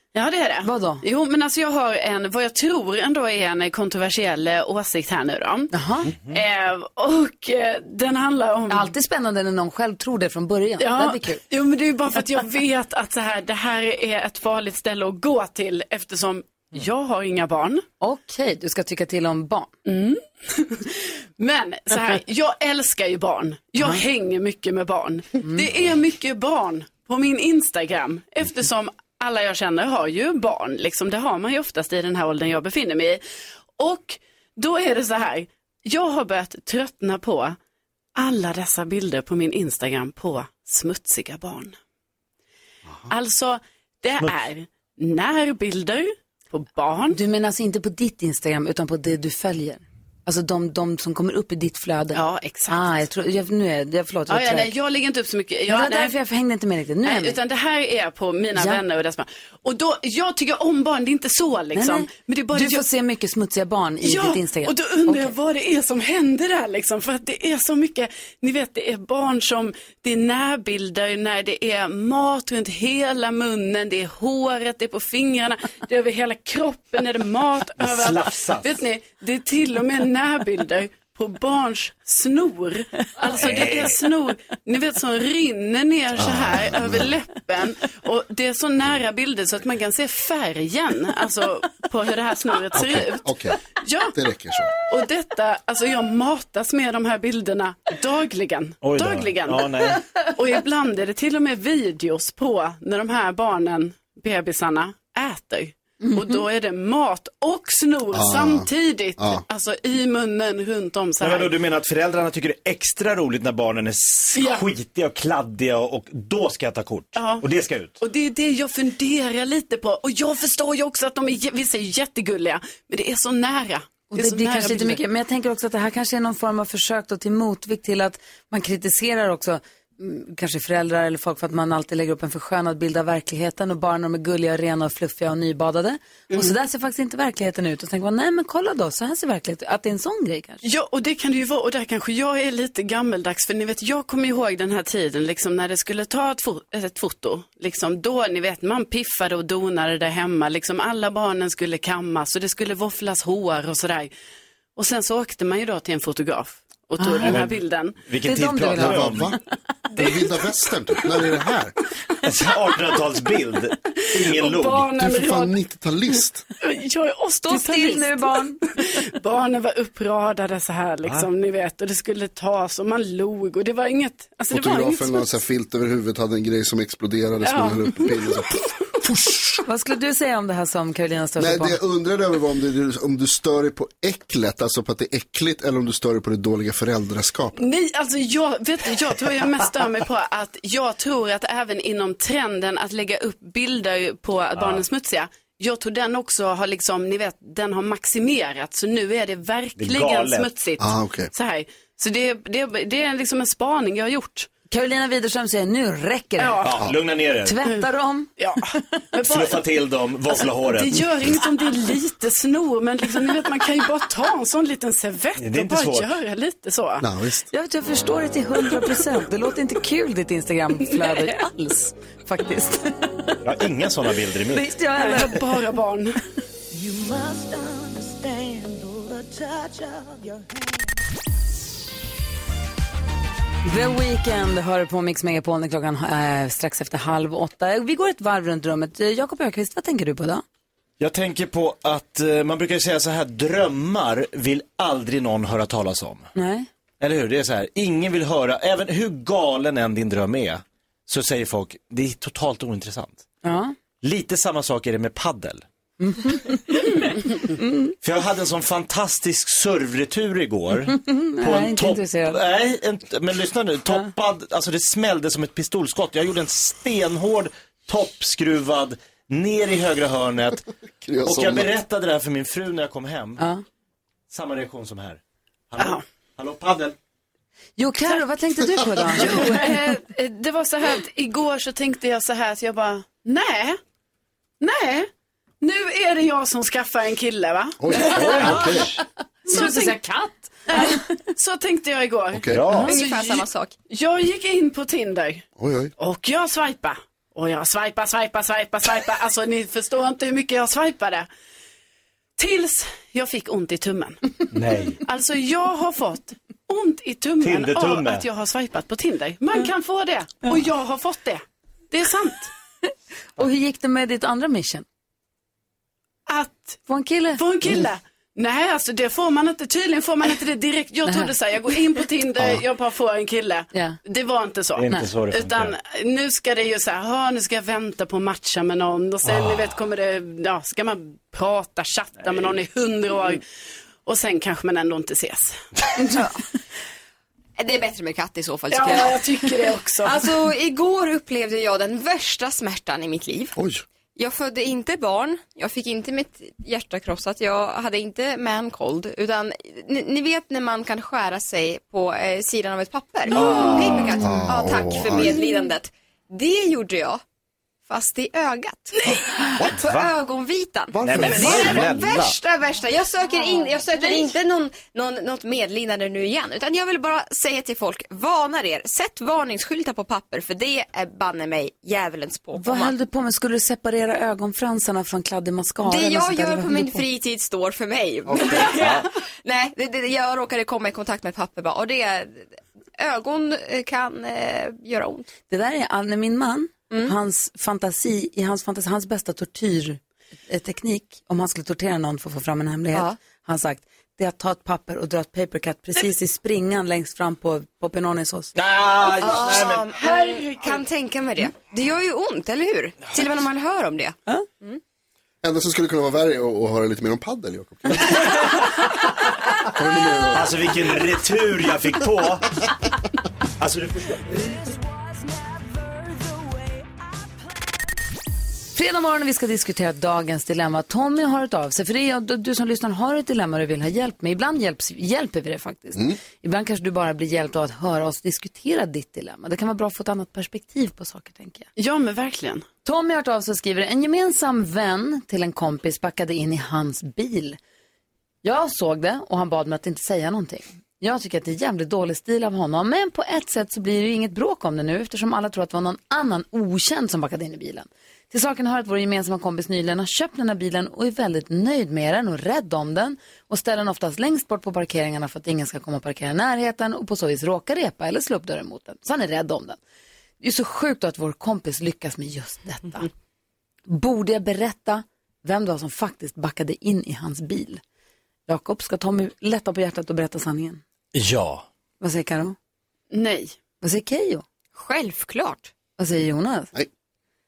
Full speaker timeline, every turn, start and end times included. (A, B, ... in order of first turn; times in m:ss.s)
0:00.1-0:05.7 A
0:00.6-0:01.0 B
0:05.7-0:06.1 B
0:06.2-0:08.9 A
0:08.7-0:11.4 B
0:10.8-0:17.8 A
0:18.0-0:19.7 B
0:19.8-0:33.2 A
0:33.8-0:37.6 A
0:38.2-0:41.8 A
0:43.1-0:47.2 A
0:47.1-0:54.7 B
0:52.1-0:53.0 A
0:54.3-0:56.1 A
0:55.7-0:57.4 B
0:57.0-1:02.8 A
0:58.6-0:58.8 B
1:01.7-1:05.3 B
1:04.0-1:33.2 A
1:17.8-1:18.7 C
1:23.3-1:24.0 C
1:26.2-1:27.1 D
1:32.8-1:33.6 D
1:33.8-1:34.1 A
1:34.1-1:34.7 D
1:34.9-1:51.5 A
1:38.8-1:40.0 C
1:48.1-1:49.4 D
1:51.2-1:58.0 C
1:54.3-1:54.6 A
1:57.2-1:57.4 A
1:58.0-2:05.0 A
2:04.1-2:20.6 B
2:20.6-2:34.1 A
2:34.8-2:38.0 A
2:37.0-2:37.3 B
2:37.2-2:37.5 C
2:38.1-2:39.3 C
2:38.2-2:39.2 B
2:38.8-2:39.4 D
2:40.0-2:41.7 D
2:40.0-2:40.2 A
2:42.2-2:44.9 C
2:43.9-2:45.5 A
2:45.0-2:46.4 D
2:46.6-2:55.4 A
2:47.4-2:48.6 B
2:54.5-2:59.2 D
2:57.4-2:58.4 A
2:59.6-3:01.8 B
3:01.4-3:07.6 D
3:07.6-3:24.5 A
3:14.6-3:14.8 C
3:19.8-3:20.5 C
3:20.8-3:21.3 D
3:24.7-3:26.6 B
3:26.4-3:26.8 A
3:26.6-3:27.6 C
3:27.4-3:28.8 B
3:28.4-3:29.7 A
3:29.2-3:31.4 C
3:30.3-3:37.1 A
3:35.4-3:36.1 C
3:37.0-3:37.5 D
3:37.5-3:43.4 B
3:43.4-3:44.8 C
3:44.5-3:45.4 B
3:45.0-3:46.2 A
3:53.6-4:00.4 B
4:01.0-4:06.3 C
4:06.3-4:06.7 B
4:07.0-4:13.2 C
4:13.4-4:13.7 B
4:14.0-4:15.6 C
4:16.0-4:16.9 B
4:17.5-4:17.9 B
4:18.0-4:30.7 C
4:20.9-4:22.4 B
4:31.0-4:31.7 D
4:31.2-4:33.4 C
4:34.3-4:36.9 C
4:35.8-4:36.0 A
4:37.8-4:39.6 B
4:39.2-4:43.8 A
4:44.6-4:45.1 A
4:45.6-4:48.6 A
4:47.8-4:48.9 D
4:48.0-4:49.0 C
4:49.5-4:50.0 A
4:49.5-4:51.0 B
4:50.7-4:55.4 A
4:52.3-4:52.6 D
4:52.5-4:53.0 C
4:52.9-4:53.7 E
4:55.6-4:55.9 D
4:56.0-5:01.3 A
5:02.4-5:04.3 A
5:04.5-5:05.0 C
5:05.0-5:12.5 A
5:07.4-5:08.3 C
5:13.4-5:14.8 B
5:16.3-5:16.8 A
5:16.9-5:17.4 B
5:17.4-5:33.4 A
5:24.8-5:25.8 C
5:29.3-5:29.6 C
5:34.0-5:35.6 A
5:37.6-5:39.2 E
5:38.7-5:40.2 A
5:40.0-5:43.6 E
5:43.6-5:43.8 D
5:44.1-5:57.2 E
5:53.3-5:54.4 C
5:54.2-5:55.4 D
5:57.9-5:59.2 E
5:59.6-5:59.9 D
5:59.8-6:00.1 C
5:59.8-6:12.9 E
6:00.9-6:01.9 D
6:01.0-6:02.4 C
6:12.6-6:17.0 B
6:15.8-6:25.3 E
6:18.3-6:18.7 D
6:18.7-6:19.0 C
6:25.5-6:38.5 B
6:38.6-6:39.9 C
6:39.2-6:44.8 E
6:39.9-6:40.8 A
6:45.4-6:48.3 D
6:49.6-6:50.6 D
6:50.3-6:52.7 C
6:53.6-6:54.5 C
6:58.7-7:11.7 B
7:11.8-7:12.6 A
7:12.8-7:17.6 B
7:18.4-7:39.8 B
7:40.4-7:43.1 B
7:43.9-7:47.8 B
7:48.5-7:50.8 B
7:51.1-7:51.6 C
7:52.0-7:52.6 B
7:53.1-7:53.6 A
7:53.8-7:54.4 B
7:54.7-7:55.7 E
7:56.0-7:56.7 B